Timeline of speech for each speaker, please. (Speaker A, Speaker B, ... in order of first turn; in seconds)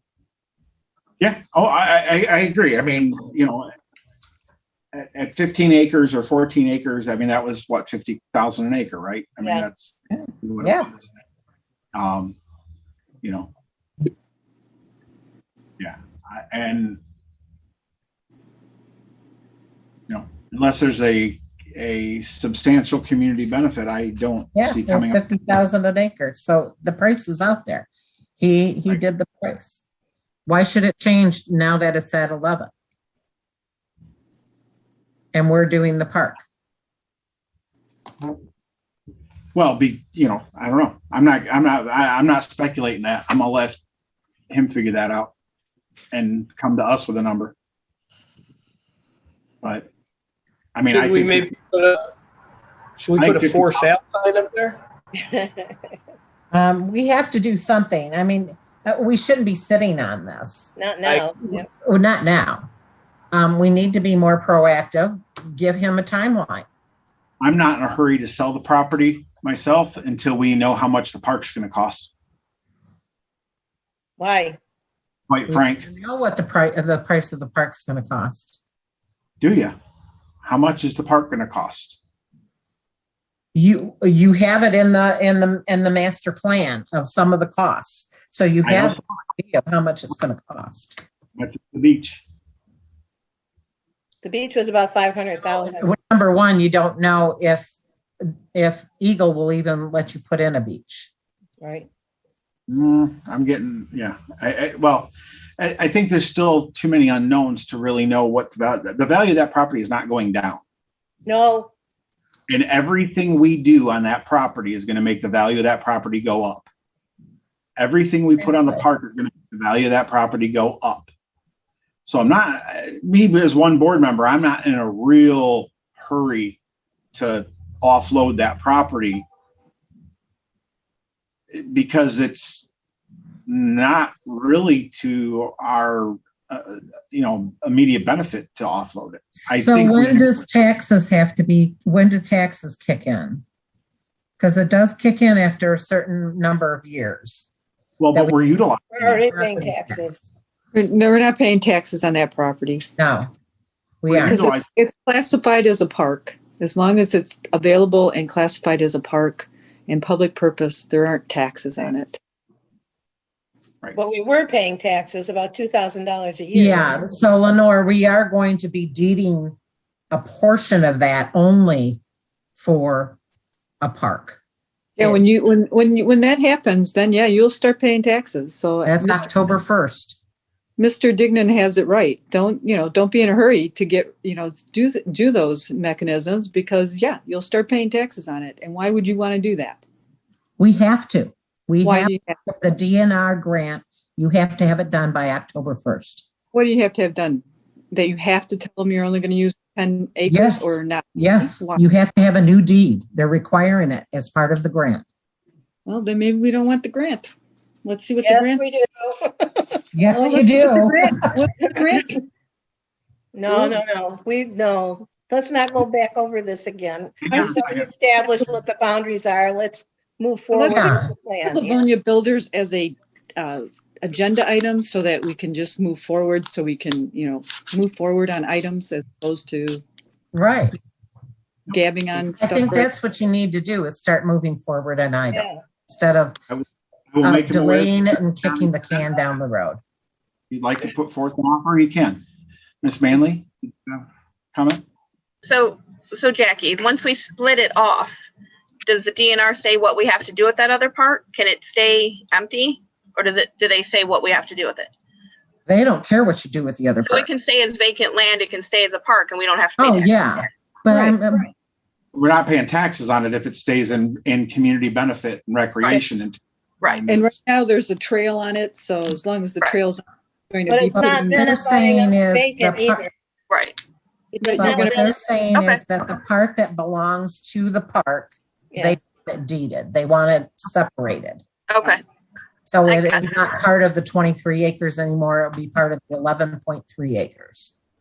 Speaker A: 1.2-3.7, 4.9-11.2, 11.9-12.4, 13.2-13.5, 15.8-17.0, 20.1-25.2, 39.5-43.8, 44.5-45.3, 46.1-47.5, 49.6-49.9, 50.8-51.6, 53.2-53.9, 67.4-72.1, 75.3-75.9, 79.4-79.8, 80.4-82.0, 88.7-89.0, 91.4-92.2, 102.7-110.6, 112.5-116.7, 117.8-121.1, 122.0-126.6, 127.1-129.2, 131.5-132.7, 133.5-140.4, 148.0-149.2, 154.1-154.7, 217.2-217.9, 236.5-238.8, 240.5-242.2, 242.8-244.8, 262.1-267.3
Speaker B: 10.6-10.9, 24.6-27.9, 28.4-29.8, 30.5-32.7, 35.3-36.4, 56.5-60.8, 61.5-62.7, 63.3-66.7, 75.5-78.6, 83.5-91.0, 95.7-101.1, 139.5-143.4, 144.4-147.5, 149.3-150.0, 153.0-153.3, 154.0-154.4, 166.5-169.6, 170.1-172.0, 172.6-173.2, 173.8-174.4, 178.8-180.2, 190.6-196.3, 200.3-205.1, 209.9-211.2, 220.7-221.1, 230.3-230.8, 232.4-236.4, 237.2-239.8, 255.7-257.3, 259.8-261.5, 270.9-273.0, 274.6-281.4, 282.7-287.8
Speaker C: 50.9-52.0, 53.0-54.8
Speaker D: 55.2-55.8, 60.8-61.7, 74.2-74.6, 94.2-95.9, 101.6-101.9, 111.3-111.7, 148.9-150.2, 163.9-167.1, 208.2-210.6, 213.3-221.9, 235.3-235.6, 270.7-273.1, 274.3-275.1, 278.7-279.0
Speaker E: 150.7-152.9, 154.2-162.2, 175.0-179.3, 180.8-189.8, 191.8-192.3, 196.5-201.8, 205.9-207.3, 207.8-208.6, 210.1-212.2, 213.5-213.8, 217.3-217.6, 220.5-229.8, 231.7-232.9, 260.9-261.2, 267.1-271.5, 274.4-275.0
Speaker F: 245.4-248.2, 248.9-254.9, 257.0-260.5, 273.5-273.8, 275.5-275.8, 281.7-282.0, 282.9-283.5